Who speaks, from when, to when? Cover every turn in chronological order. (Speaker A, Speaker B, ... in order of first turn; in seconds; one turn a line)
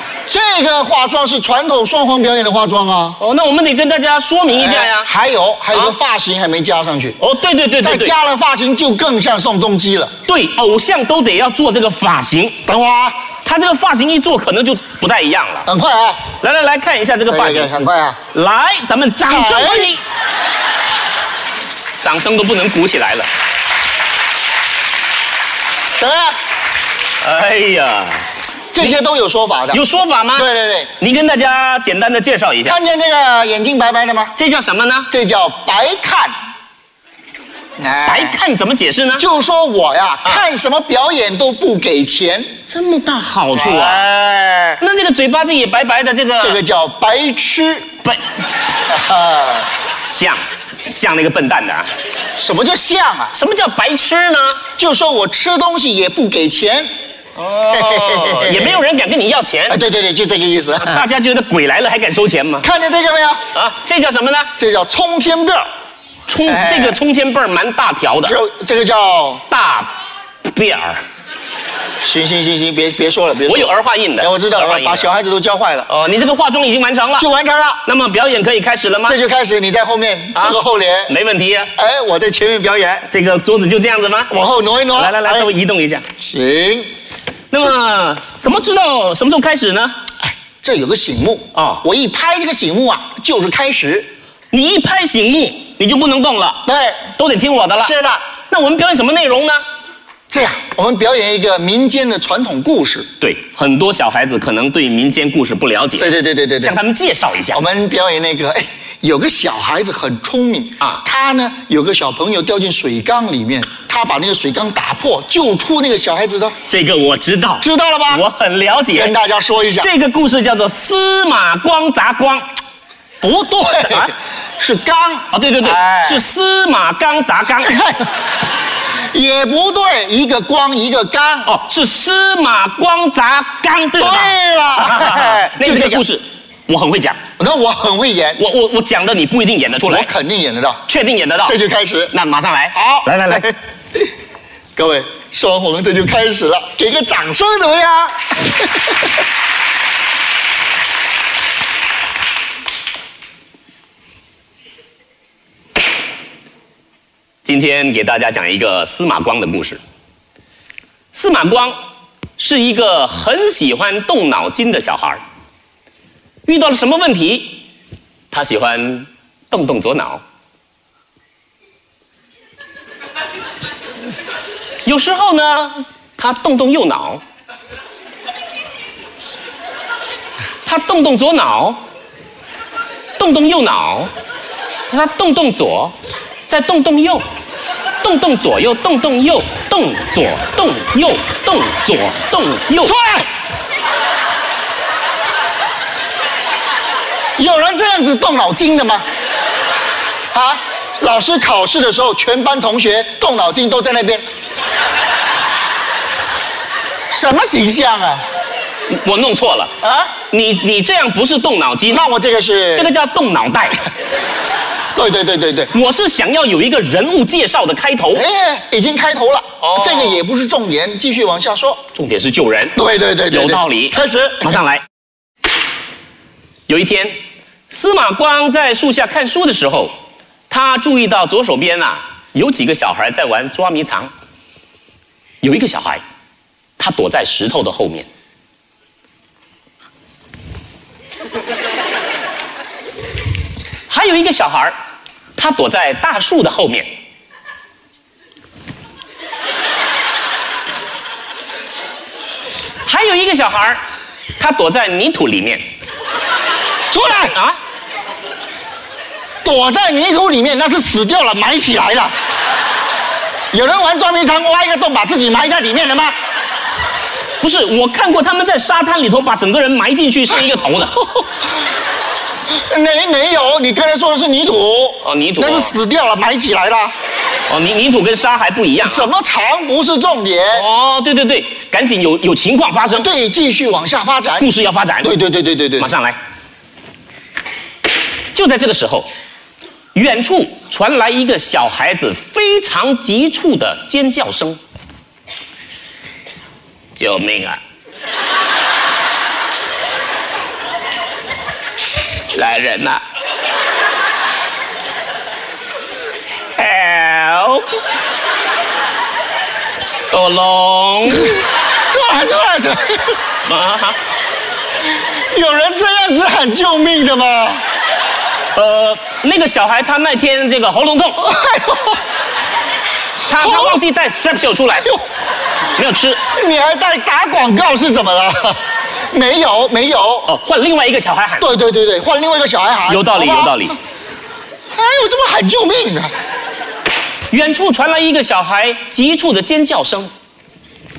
Speaker A: 0.3-3.2
Speaker B: 3.2-5.1
Speaker A: 4.5-7.2
Speaker B: 7.2-8.1
Speaker A: 7.8-10.1
Speaker B: 10.2-12.6
Speaker A: 12.6-13.2
Speaker B: 13.4-15.7
Speaker A: 15.6-16.2
Speaker B: 16.4-17.7
Speaker A: 17.3-18.2
Speaker B: 18.3-20.0
Speaker A: 19.2-19.9
Speaker B: 22.0-23.3
Speaker A: 26.0-26.4
Speaker B: 27.2-28.2
Speaker A: 28.7-29.8
Speaker B: 29.7-30.5
Speaker A: 30.3-30.9
Speaker B: 31.0-32.8
Speaker A: 32.6-34.3
Speaker B: 34.4-35.1
Speaker A: 35.1-36.3
Speaker A: 37.8-38.4
Speaker B: 38.0-39.2
Speaker A: 39.1-42.5
Speaker B: 42.7-44.1
Speaker A: 43.5-44.8
Speaker B: 44.8-46.6
Speaker A: 46.4-47.9
Speaker A: 48.9-49.7
Speaker B: 50.0-51.9
Speaker A: 52.4-53.3
Speaker B: 53.3-54.6
Speaker A: 54.8-56.9
Speaker B: 57.4-59.8
Speaker A: 57.7-58.8
Speaker A: 59.7-61.1
Speaker B: 60.8-62.7
Speaker A: 62.6-63.4
Speaker B: 63.5-64.5
Speaker A: 64.6-65.7
Speaker B: 66.3-68.3
Speaker A: 66.5-67.0
Speaker A: 68.2-69.4
Speaker B: 69.5-69.9
Speaker B: 70.4-71.0
Speaker A: 72.0-75.9
Speaker B: 73.5-75.1
Speaker B: 75.9-77.3
Speaker A: 77.2-77.8
Speaker B: 77.8-79.2
Speaker A: 79.0-81.1
Speaker B: 80.3-81.7
Speaker A: 81.8-83.1
Speaker B: 83.1-84.3
Speaker A: 84.3-85.5
Speaker B: 84.9-86.0
Speaker A: 86.2-86.9
Speaker B: 87.5-90.0
Speaker A: 90.2-94.1
Speaker B: 91.5-91.8
Speaker B: 94.5-97.9
Speaker A: 96.6-97.1
Speaker A: 97.8-98.2
Speaker B: 98.5-99.6
Speaker A: 100.3-103.0
Speaker B: 103.2-107.6
Speaker A: 106.0-106.8
Speaker A: 107.5-116.5
Speaker B: 116.7-119.1
Speaker A: 117.6-118.2
Speaker A: 118.9-119.9
Speaker B: 119.8-122.5
Speaker A: 123.2-126.2
Speaker B: 123.8-124.1
Speaker B: 125.3-127.7
Speaker A: 127.6-128.1
Speaker A: 129.1-131.5
Speaker B: 131.4-137.2
Speaker A: 134.0-136.0
Speaker A: 137.4-138.4
Speaker B: 138.4-140.1
Speaker A: 139.8-140.8
Speaker B: 140.9-141.6
Speaker A: 141.4-142.1
Speaker B: 142.1-143.5
Speaker A: 142.7-144.1
Speaker A: 144.8-148.9
Speaker B: 157.4-159.8
Speaker B: 161.1-161.8
Speaker B: 162.4-165.2
Speaker B: 166.4-167.6
Speaker B: 168.3-170.2
Speaker B: 174.8-177.2
Speaker B: 180.6-181.8
Speaker B: 183.2-184.1
Speaker B: 184.9-185.9
Speaker B: 186.5-187.2
Speaker B: 188.0-192.9
Speaker A: 192.8-193.3
Speaker A: 197.4-199.0
Speaker A: 200.3-204.2
Speaker A: 207.1-208.2
Speaker B: 208.9-209.7
Speaker A: 209.8-210.1
Speaker B: 210.3-212.0
Speaker A: 211.9-212.9
Speaker B: 212.7-213.9
Speaker A: 214.9-215.7
Speaker B: 215.7-218.2
Speaker A: 218.1-221.8
Speaker B: 219.6-220.2
Speaker B: 221.9-222.8
Speaker A: 222.7-224.6
Speaker B: 223.3-224.8
Speaker B: 226.7-227.2
Speaker B: 227.7-229.9
Speaker B: 230.5-234.1
Speaker B: 235.4-236.0
Speaker B: 236.8-238.1
Speaker B: 243.9-244.8
Speaker B: 245.3-246.9
Speaker B: 252.8-253.8
Speaker B: 254.4-255.6
Speaker A: 256.9-257.4
Speaker B: 257.3-257.6
Speaker A: 259.4-262.1
Speaker A: 263.5-266.1
Speaker B: 267.4-271.0
Speaker A: 272.5-276.9
Speaker B: 275.0-275.8
Speaker B: 277.5-279.1
Speaker A: 278.8-280.7
Speaker B: 280.5-283.1
Speaker A: 282.9-284.5
Speaker B: 284.4-285.1
Speaker A: 285.0-285.9
Speaker B: 285.8-286.2
Speaker B: 288.3-289.1
Speaker B: 289.9-294.6
Speaker B: 297.0-297.6
Speaker B: 302.3-303.0
Speaker B: 306.5-307.6
Speaker B: 310.1-311.4
Speaker A: 311.9-313.2
Speaker B: 313.4-314.0
Speaker A: 315.2-317.6
Speaker B: 318.5-321.3
Speaker A: 321.2-322.0
Speaker B: 323.2-324.9
Speaker A: 323.3-323.8
Speaker A: 324.7-325.0
Speaker B: 325.7-326.2
Speaker A: 326.3-328.6
Speaker A: 329.1-330.3
Speaker B: 330.2-331.5
Speaker A: 331.4-333.7
Speaker B: 332.9-333.8
Speaker A: 334.7-336.1
Speaker B: 337.3-340.1